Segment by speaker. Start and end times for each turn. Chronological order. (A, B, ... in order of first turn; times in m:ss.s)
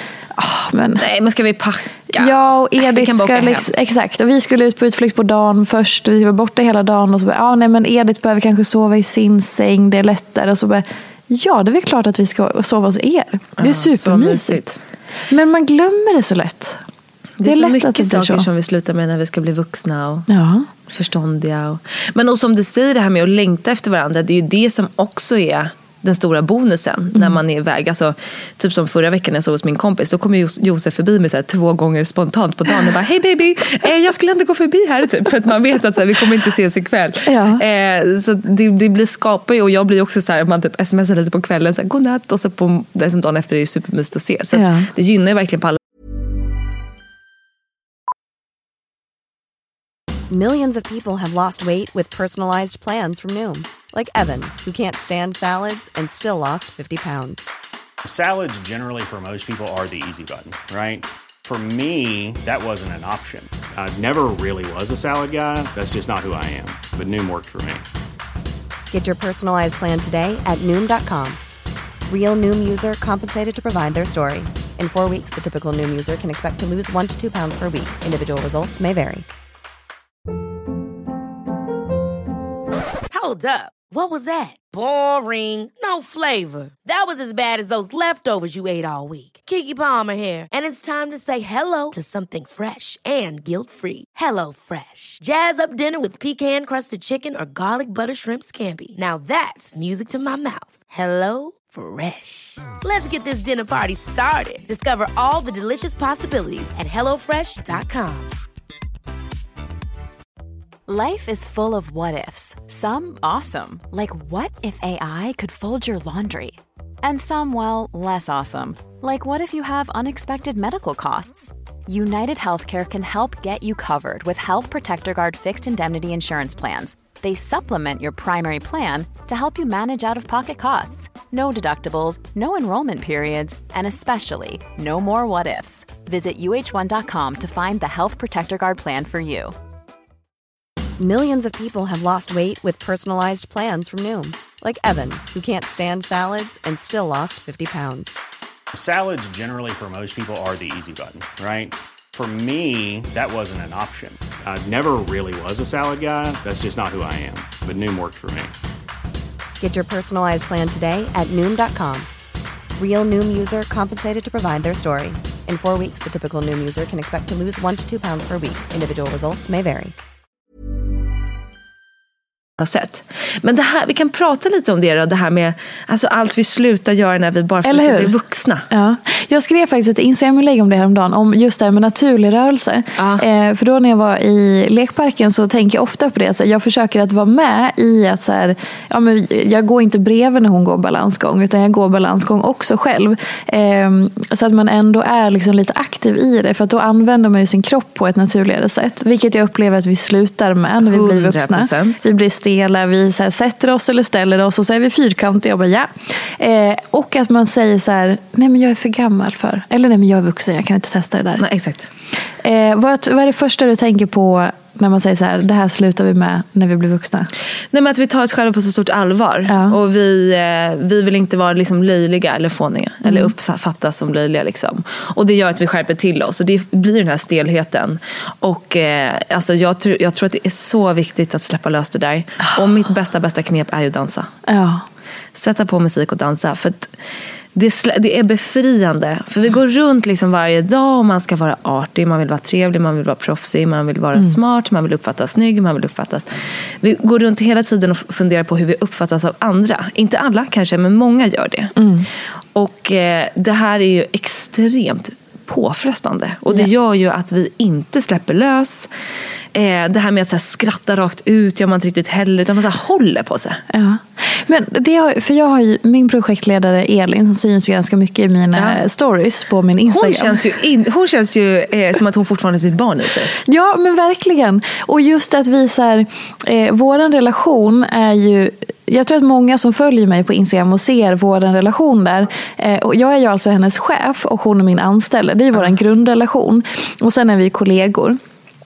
0:00.4-0:01.0 A
0:01.0-0:03.7 B
0:02.1-0:14.7 A
0:13.6-0:14.8 B
0:15.3-0:16.8 A
0:17.4-0:20.3 B
0:17.4-0:18.5 A
0:20.3-0:20.7 A
0:20.8-0:45.8 B
0:37.2-0:37.6 A
0:44.5-0:44.9 A
0:50.3-0:57.5 C
0:58.0-1:07.8 D
1:08.9-1:11.4 C
1:12.1-1:19.2 C
1:23.1-1:48.3 E
1:50.9-2:19.5 F
2:21.0-2:28.1 C
2:28.7-2:38.5 D
2:39.6-2:42.1 C
2:42.8-2:49.9 C
2:52.6-2:58.7 B
2:57.6-2:58.1 A
2:58.7-3:31.4 A
3:03.0-3:03.2 B
3:20.8-3:22.0 B
3:31.4-3:31.9 B
3:32.4-3:37.3 A
3:37.7-3:54.3 B
3:39.5-3:39.8 A
3:43.0-3:43.3 A
3:54.5-3:54.8 A
3:55.3-3:56.9 B
3:57.5-4:11.7 B
4:11.8-4:12.0 A
4:12.5-4:18.9 B
4:19.5-4:23.6 B
4:23.7-4:30.4 A
4:28.5-4:28.8 B
4:29.8-4:33.3 B
4:33.4-4:48.2 A